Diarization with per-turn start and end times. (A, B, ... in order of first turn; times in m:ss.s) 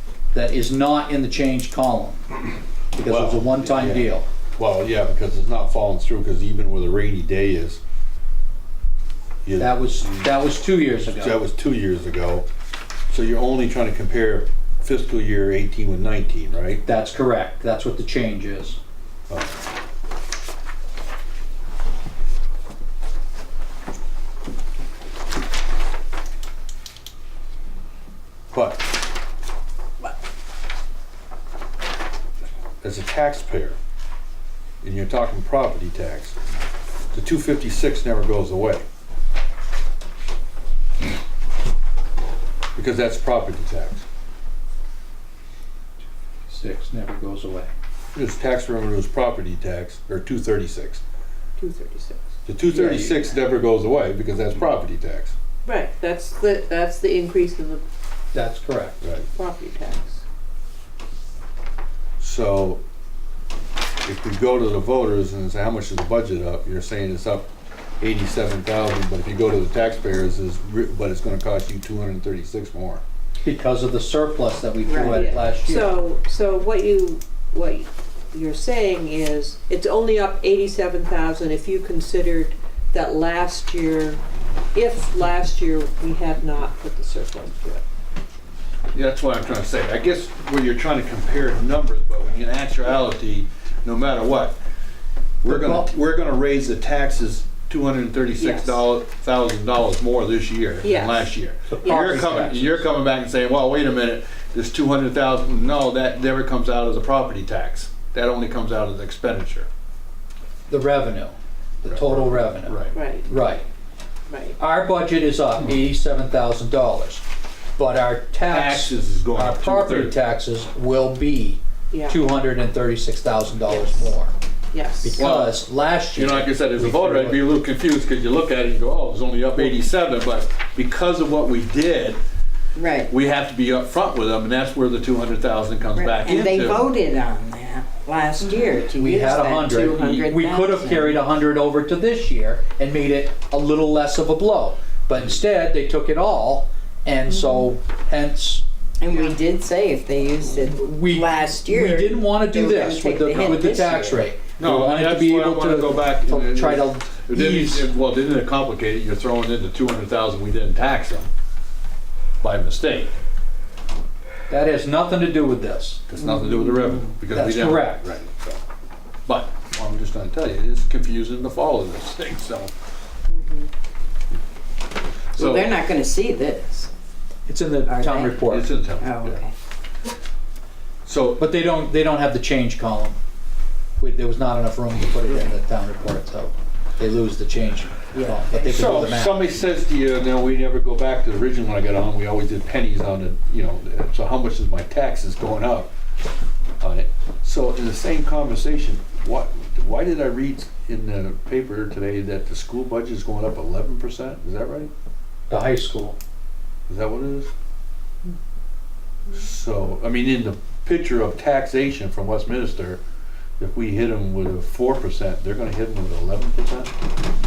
0:00.3-0:02.2 A
0:02.9-0:04.3 A
0:03.1-0:07.8 B
0:09.4-0:10.4 B
0:09.6-0:11.4 A
0:11.0-0:12.5 B
0:13.1-0:16.8 B
0:16.8-0:18.8 A
0:19.3-0:19.6 B
0:28.5-0:29.0 B
0:32.8-0:33.8 B
0:34.8-0:36.4 B
0:37.1-0:38.8 B
0:42.8-0:44.0 B
0:46.5-0:47.7 A
0:48.1-0:51.0 B
0:51.6-0:52.3 C
0:52.5-0:55.3 B
0:52.7-0:53.3 A
0:55.6-0:57.8 C
0:58.3-0:59.0 A
0:59.0-0:59.3 B
0:59.3-1:00.2 C
1:02.2-1:02.8 B
1:04.0-1:07.5 B
1:08.0-1:13.0 B
1:13.4-1:15.9 A
1:14.9-1:15.3 D
1:15.0-1:24.2 C
1:24.7-1:27.8 C
1:28.9-1:34.6 B
1:35.4-1:49.7 B
1:35.4-1:35.9 A
1:38.4-1:38.8 C
1:40.8-1:41.3 C
1:41.8-1:42.8 A
1:41.8-1:42.4 C
1:50.7-1:53.6 A
1:51.9-1:53.0 B
1:53.0-1:53.3 C
1:54.3-1:54.6 C
1:54.6-1:57.2 A
1:57.8-2:04.3 A
1:58.5-2:00.2 B
2:01.9-2:02.2 C
2:04.7-2:05.2 C
2:05.0-2:07.4 A
2:05.2-2:05.6 B
2:06.1-2:12.2 B
2:12.8-2:13.1 D
2:13.1-2:16.9 B
2:15.9-2:21.2 D
2:19.0-2:28.6 A
2:29.0-2:34.3 D
2:30.7-2:37.9 A
2:34.6-2:41.3 B
2:42.4-2:43.1 B
2:44.5-2:46.0 A
2:46.1-2:48.6 B
2:46.3-2:46.9 D
2:47.3-2:48.1 A
2:49.3-2:52.7 B
2:53.3-2:53.7 D
2:55.3-2:55.8 B
2:55.4-2:56.9 D
2:57.5-2:58.7 A
2:57.9-2:58.4 D
2:58.5-2:59.4 B
2:59.0-2:59.5 D
3:01.0-3:01.4 B
3:01.4-3:03.2 A
3:04.0-3:09.5 A
3:08.1-3:08.4 D
3:08.5-3:15.9 B
3:16.8-3:24.9 B
3:25.5-3:26.2 A
3:26.9-3:27.5 B
3:29.3-3:33.0 B
3:33.6-3:36.9 B